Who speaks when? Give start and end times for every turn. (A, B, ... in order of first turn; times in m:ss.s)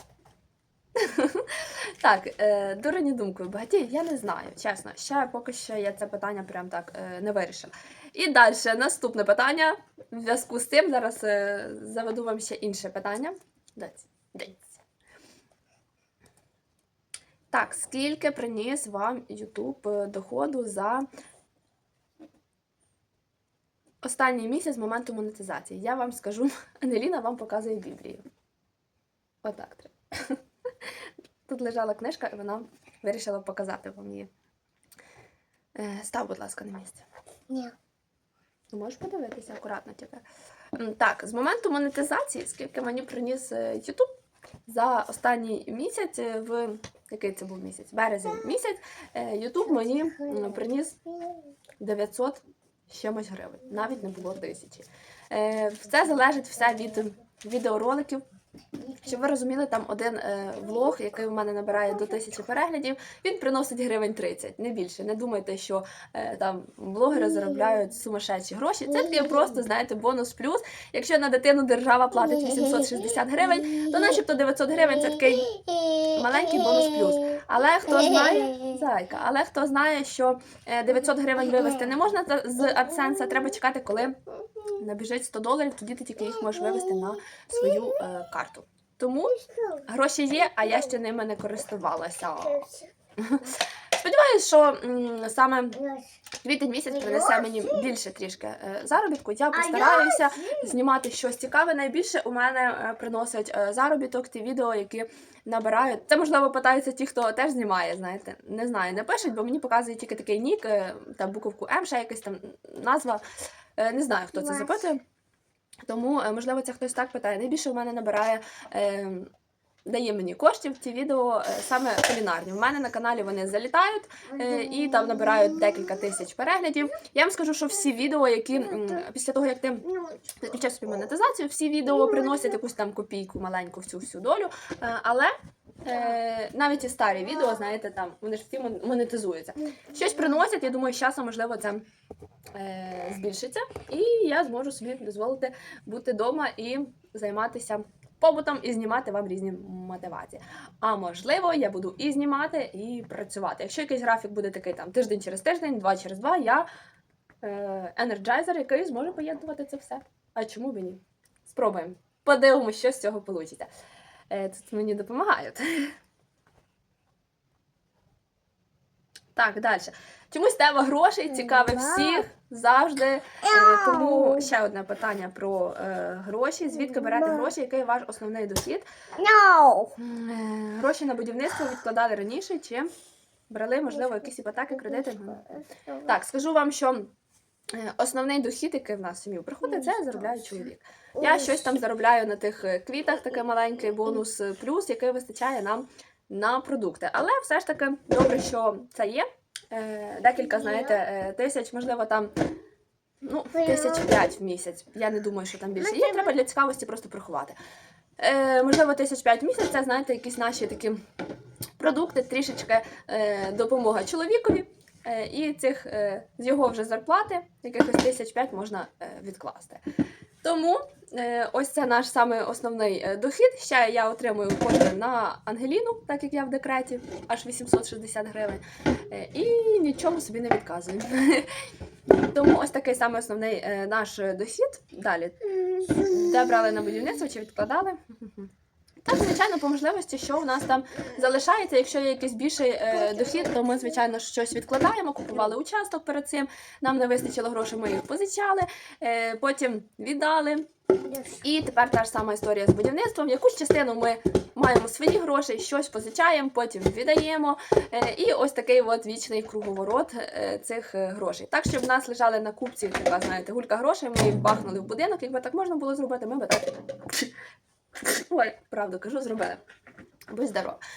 0:01.0-0:14.8 A
0:17.5-0:21.1 A
0:24.0-0:28.2 A
0:29.4-0:30.9 A
0:31.5-0:34.3 A
0:35.8-0:37.0 A
0:37.5-0:37.8 B
0:38.7-0:40.2 A
0:40.8-0:44.1 A
0:44.7-0:51.0 A
0:49.6-0:51.5 B
0:51.8-0:58.2 A
0:53.8-0:54.2 B
0:58.8-0:59.2 B
0:58.9-1:15.5 A
1:00.6-1:01.0 B
1:07.1-1:07.8 B
1:08.9-1:09.5 B
1:12.1-1:14.2 B
1:14.8-1:18.8 B
1:16.1-1:29.4 A
1:21.4-1:21.9 B
1:22.6-1:23.6 B
1:24.4-1:24.8 B
1:26.2-1:28.0 B
1:29.3-1:29.8 B
1:29.9-1:32.6 A
1:30.5-1:31.0 B
1:32.4-1:32.9 B
1:33.2-1:35.8 A
1:35.7-1:36.2 B
1:36.4-1:53.2 A
1:36.9-1:37.9 B
1:39.5-1:40.8 B
1:53.8-1:55.0 A
1:54.3-1:54.9 B
1:55.9-1:59.3 A
1:59.8-2:09.8 A
2:04.3-2:06.2 B
2:08.5-2:09.1 B
2:09.8-2:10.6 B
2:10.4-2:15.3 A
2:11.8-2:12.6 B
2:15.8-2:21.8 A
2:17.3-2:17.7 B
2:19.7-2:20.4 B
2:22.6-2:36.7 A
2:37.4-2:43.7 A
2:44.3-2:45.9 A
2:49.4-2:58.9 A
2:51.3-2:52.3 B
2:53.4-2:54.5 B
2:56.7-2:57.5 B
2:59.2-3:00.0 B
3:00.0-3:02.9 A
3:03.5-3:05.4 A
3:03.9-3:06.2 B
3:06.0-3:07.1 A
3:07.7-3:22.3 A
3:09.6-3:11.8 B
3:20.3-3:21.0 B
3:23.2-3:27.6 A
3:23.5-3:24.2 B
3:25.8-3:26.4 B
3:28.2-3:31.0 A
3:31.8-3:39.8 A
3:40.4-3:51.5 A
3:52.2-3:58.5 A
3:55.5-3:57.0 B
3:59.0-4:10.7 A
4:02.9-4:04.0 B
4:11.0-4:11.4 B
4:11.4-4:27.3 A
4:28.0-4:29.6 A
4:30.3-4:30.8 A